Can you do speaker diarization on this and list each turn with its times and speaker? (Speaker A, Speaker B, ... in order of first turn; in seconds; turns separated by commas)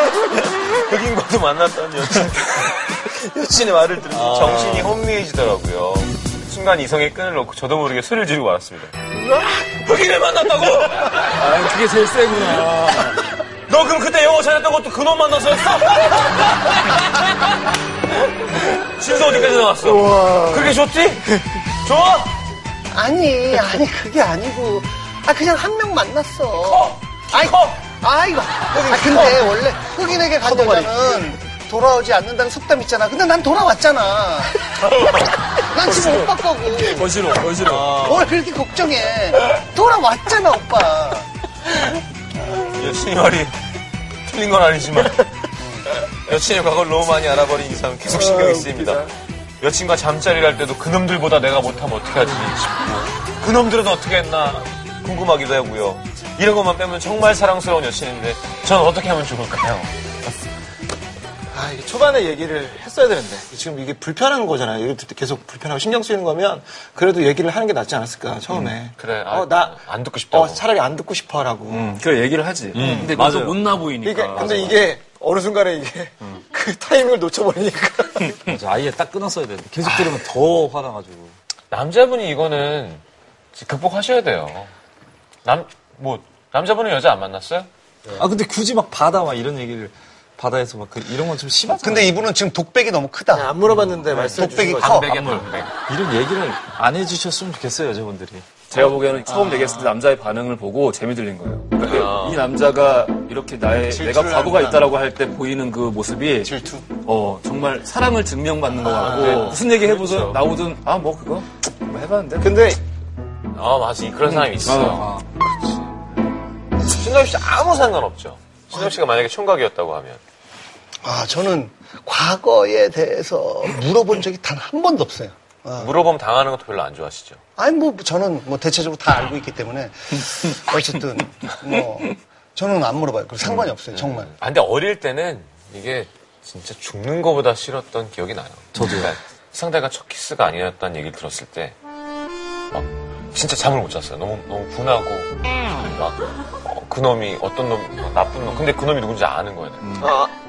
Speaker A: 0.2-3.0, Speaker B: 3.1-4.2, Speaker A: 3.9-9.0, Speaker C: 4.2-4.7, Speaker A: 9.6-11.5, Speaker D: 11.2-13.2, Speaker A: 13.7-17.7, Speaker A: 18.6-22.4, Speaker B: 19.8-20.8, Speaker E: 22.9-34.7, Speaker A: 26.6-27.8, Speaker B: 28.7-29.5, Speaker B: 30.4-30.9, Speaker E: 35.6-41.3, Speaker B: 36.0-36.2, Speaker D: 36.8-38.3, Speaker A: 42.5-43.6, Speaker A: 44.2-45.3, Speaker E: 45.6-45.9, Speaker A: 46.0-59.9, Speaker B: 48.2-49.0, Speaker B: 61.5-72.0, Speaker A: 68.9-70.6, Speaker D: 71.7-74.9, Speaker A: 72.7-73.1, Speaker B: 72.8-73.2, Speaker C: 72.8-73.6, Speaker B: 74.0-78.4, Speaker C: 78.5-81.3, Speaker A: 81.7-83.0, Speaker A: 83.5-84.7, Speaker A: 85.4-87.7, Speaker C: 88.2-92.2, Speaker E: 91.8-93.5, Speaker B: 93.3-95.2, Speaker E: 94.1-95.4, Speaker A: 94.7-95.7, Speaker C: 95.4-98.5, Speaker D: 98.7-112.5, Speaker B: 99.3-99.9, Speaker A: 101.8-102.4, Speaker B: 103.8-104.9, Speaker B: 106.4-106.9, Speaker B: 108.7-109.6, Speaker A: 108.9-110.4, Speaker B: 112.4-112.8, Speaker A: 113.5-116.0, Speaker D: 114.2-115.2, Speaker A: 116.8-120.2, Speaker E: 121.0-125.9, Speaker A: 125.8-127.4, Speaker E: 127.6-134.3, Speaker A: 133.9-141.8, Speaker C: 138.7-139.2, Speaker A: 142.7-149.9, Speaker D: 149.8-150.1, Speaker B: 150.0-150.3